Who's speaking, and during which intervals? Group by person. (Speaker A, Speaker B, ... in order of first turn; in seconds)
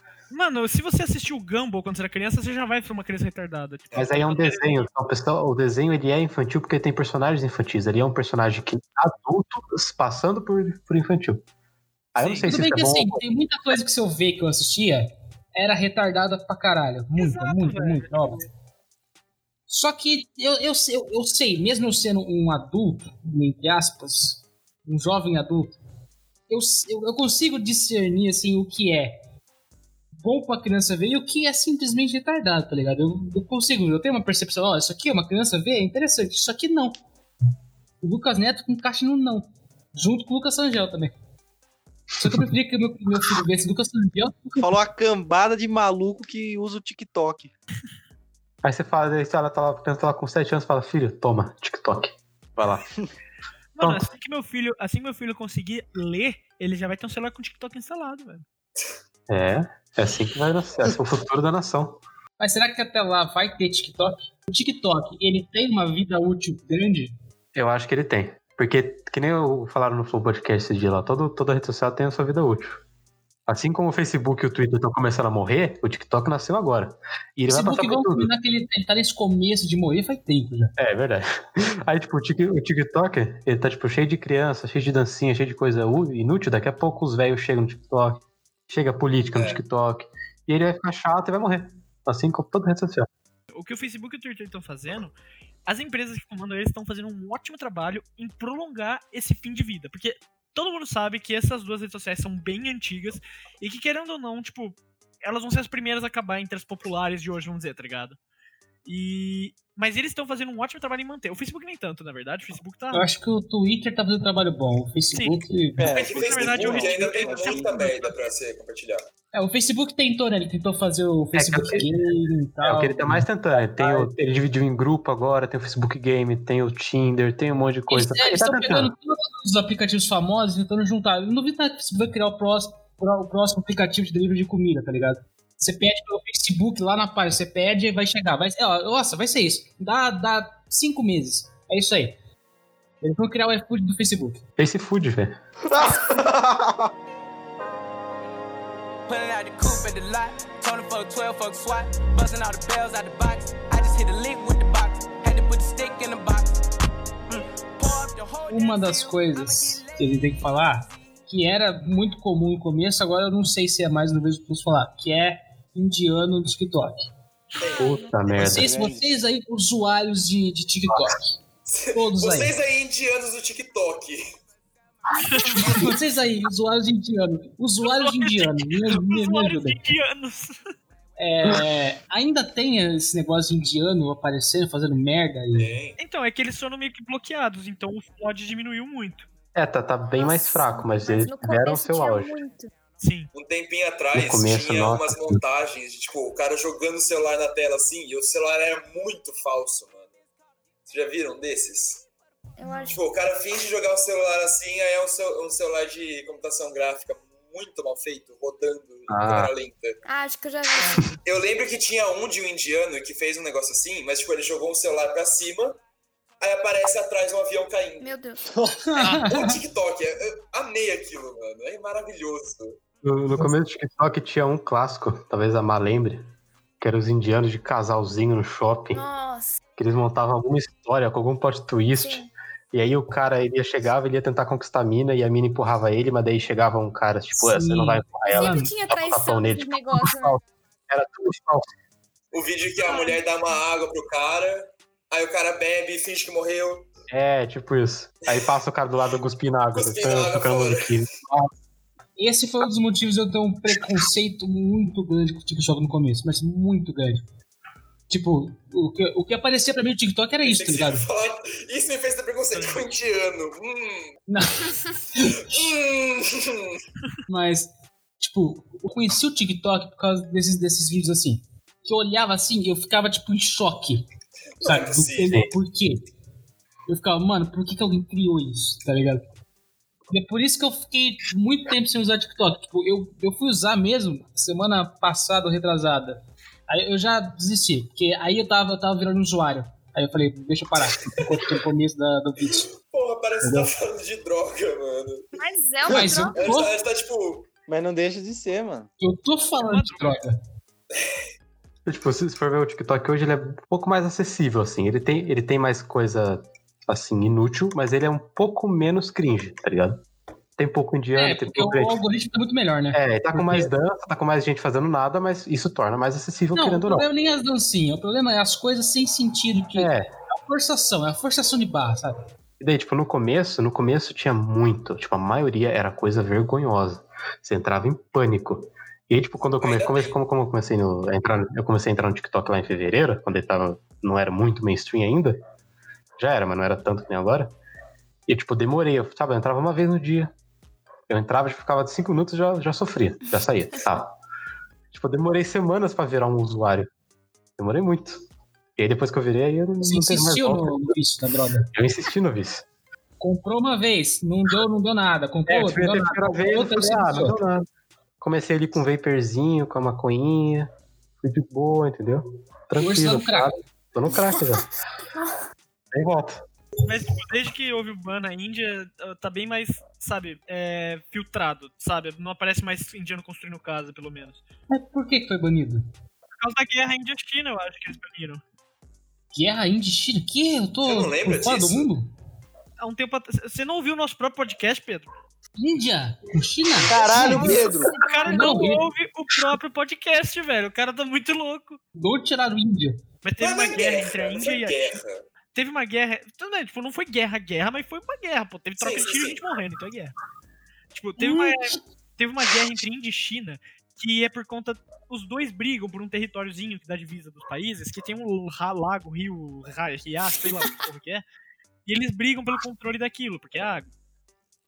Speaker A: 0.3-4.8, 12.2-12.5, 17.1-18.4, 53.7-58.4, 93.5-95.1, 95.7-108.2, 108.8-113.0, 115.1-118.2, 175.2-175.8, 177.8-180.6, 186.0-189.3, 193.0-193.3, 202.7-202.9, 210.8-211.2, 219.0-219.2, 262.5-262.9, 299.6-300.2, 366.8-374.4, 376.4-378.4, 382.8-385.1, 387.1-391.8, 393.2-395.0, 395.5-400.1, 400.9-411.2, 411.9-413.9
Speaker B: 3.9-11.4, 12.1-13.3, 42.2-42.5, 48.6-52.9, 53.8-54.0, 59.3-62.0, 67.5-72.8, 73.5-78.3, 80.8-93.1, 121.3-128.9, 144.6-145.4, 167.8-168.8, 189.5-192.4, 194.1-195.4, 209.1-209.5, 223.0-229.0, 229.8-241.7, 247.1-251.5, 301.9-310.0, 310.6-312.0, 312.9-317.1, 319.7-320.1, 322.6-335.4, 336.2-337.5, 338.3-340.3, 341.1-344.1, 344.9-346.9, 347.6-348.2, 348.8-350.9, 351.7-352.6, 355.5-357.6, 358.2-360.7, 361.2-364.7, 365.9-366.4
Speaker C: 12.4-18.4, 19.7-25.8, 26.5-29.1, 30.1-37.0, 38.0-41.1, 42.2-44.7, 62.4-67.1, 77.5-80.7, 112.9-116.0, 119.3-123.2, 127.9-142.2, 143.0-144.4, 158.5-167.1, 168.3-171.4, 171.9-172.6, 175.5-179.8, 181.2-185.8, 218.9-219.6, 237.4-238.8, 252.2-257.2, 258.1-261.1, 264.3-265.4, 267.3-274.1, 274.6-276.0, 276.9-279.2, 280.1-292.7, 293.4-293.7, 295.9-296.8, 299.0-300.4, 311.1-313.7, 316.5-322.2, 349.8-351.7, 353.2-357.4, 362.8-363.6, 374.7-375.9, 379.3-382.1, 385.6-387.6, 388.2-388.8, 391.9-393.0, 401.2-401.7
Speaker D: 44.6-47.5, 115.8-117.9, 123.7-124.1, 145.7-146.9, 168.5-169.1, 218.5-218.8, 297.7-298.9, 386.9-387.9
Speaker E: 89.3-89.6, 115.9-119.0, 167.6-168.0, 171.7-174.2, 185.5-186.0, 193.3-200.1, 200.8-202.1, 202.9-210.0, 211.2-215.8, 216.4-218.1, 219.2-222.8, 242.3-246.9, 249.7-250.9, 260.4-264.2, 265.2-266.8, 274.6-275.4, 291.0-291.6, 292.7-295.3, 295.9-297.5, 300.9-301.2, 329.6-330.2, 380.8-381.9, 393.4-395.2, 398.8-399.4
Speaker F: 149.1-156.6, 157.3-160.2
Speaker G: 167.6-168.1, 190.1-192.7, 202.6-203.0, 210.0-211.1, 218.0-218.4, 228.9-229.6, 232.0-232.3, 238.2-240.4, 242.8-243.2, 295.3-296.4, 387.3-388.7